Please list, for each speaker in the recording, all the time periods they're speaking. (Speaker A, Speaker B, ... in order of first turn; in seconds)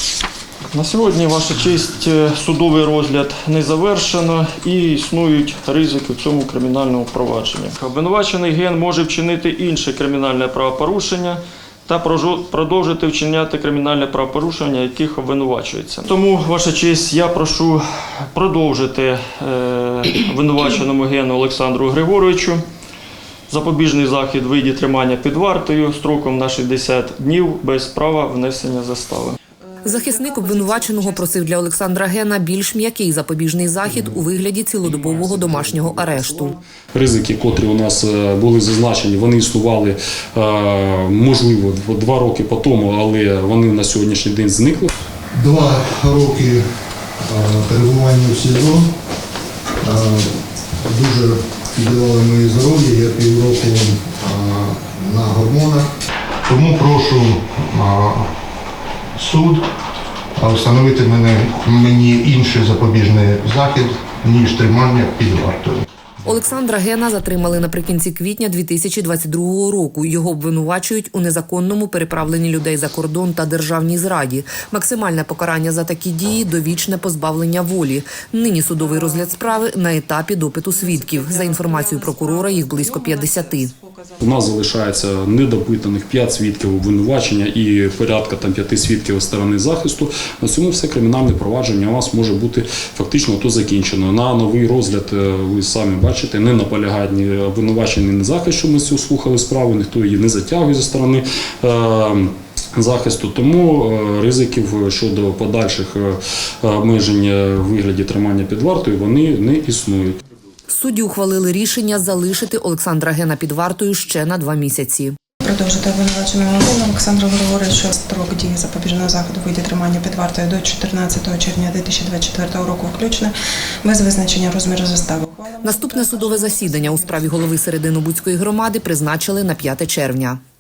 Speaker A: 0.7-22.6, 23.5-29.4
Speaker B: 29.8-36.6, 66.2-83.7, 110.7-115.2, 125.6-130.4
Speaker C: 34.8-44.9, 84.2-110.2
Speaker D: 45.3-46.6, 47.2-48.9, 49.8-55.9, 56.5-58.3, 59.1-59.7, 60.4-65.8
Speaker E: 80.8-84.2, 115.4-123.3, 123.8-127.5